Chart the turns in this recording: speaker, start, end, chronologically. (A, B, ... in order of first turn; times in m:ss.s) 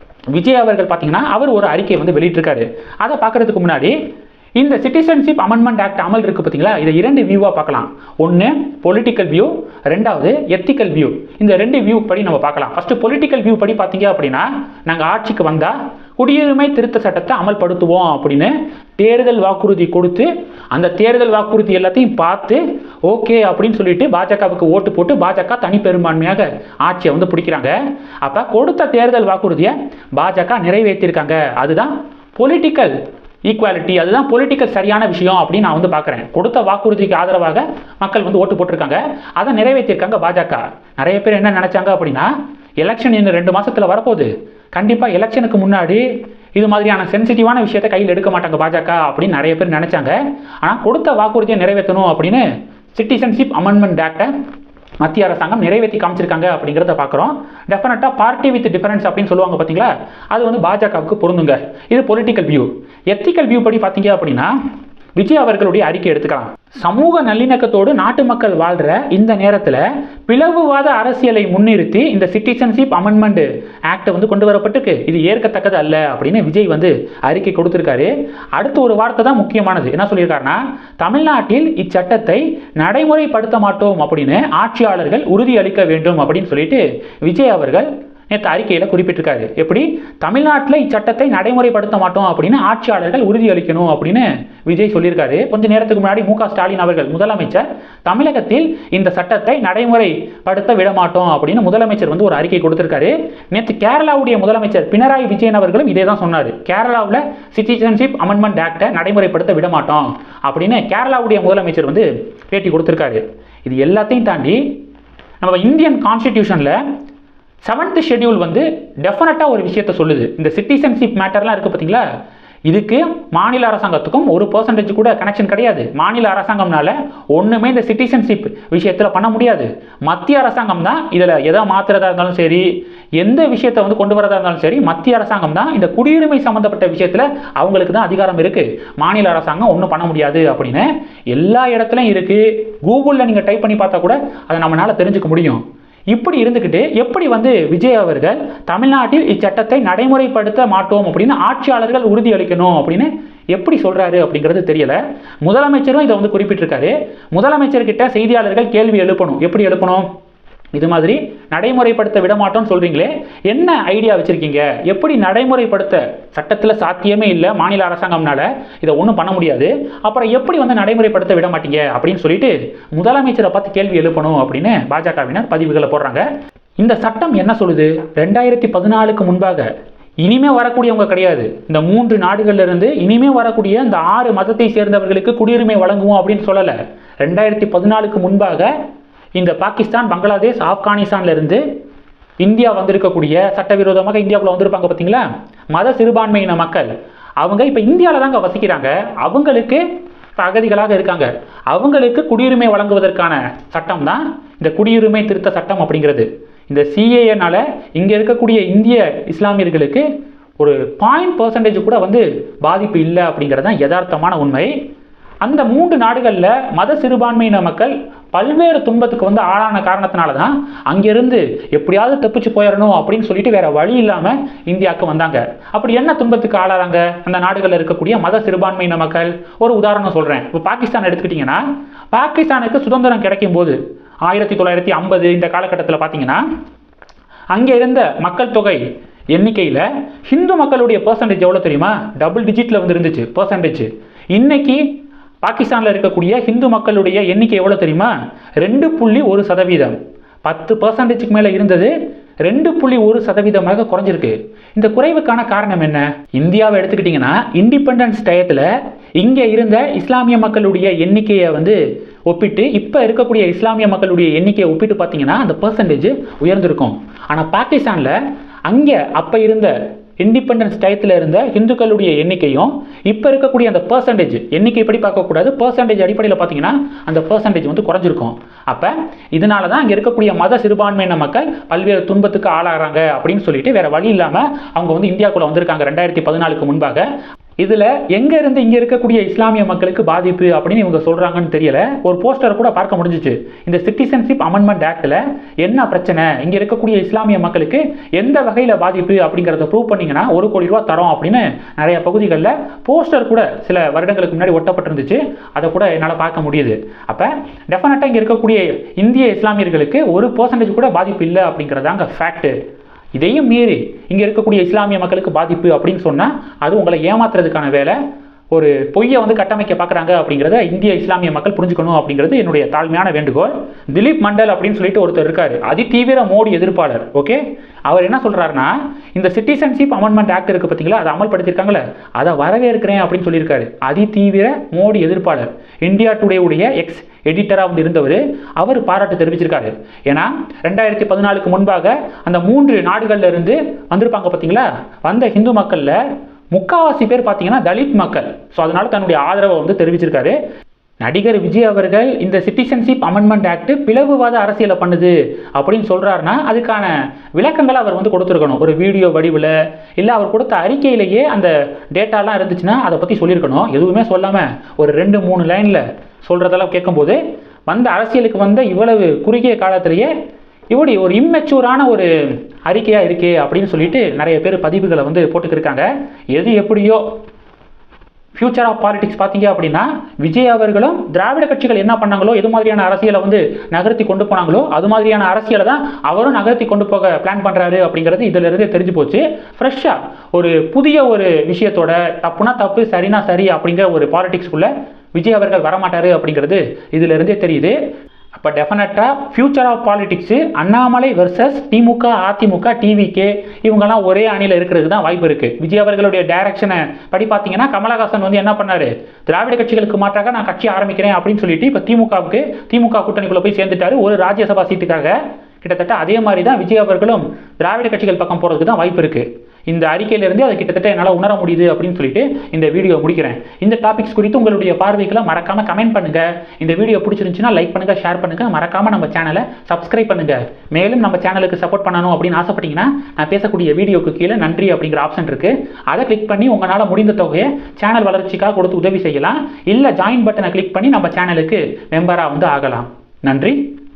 0:00.3-0:03.9 A
0:04.6-0:32.9 A
0:33.5-0:46.0 A
0:46.6-0:54.3 A
0:55.0-1:04.5 A
1:05.2-1:54.6 A
1:55.4-1:56.8 A
1:57.6-2:02.0 A
2:02.7-2:12.7 A
2:13.2-2:40.1 A
2:40.7-2:56.2 A
2:56.8-2:59.7 A
3:00.2-3:08.7 A
3:09.4-3:11.6 A
3:12.4-3:19.8 A
3:20.4-3:30.0 A
3:30.6-3:34.7 A
3:35.4-3:56.4 A
3:57.5-3:58.8 A
3:59.3-4:04.8 A
4:05.4-4:11.9 A
4:12.5-4:18.7 A
4:19.2-4:47.0 A
4:47.6-5:12.5 A
5:13.2-5:18.0 A
5:18.5-5:46.0 A
5:46.5-5:50.3 A
5:51.0-6:10.1 A
6:10.7-6:12.1 A
6:12.7-6:17.0 A
6:18.4-6:37.8 A
6:38.4-7:23.6 A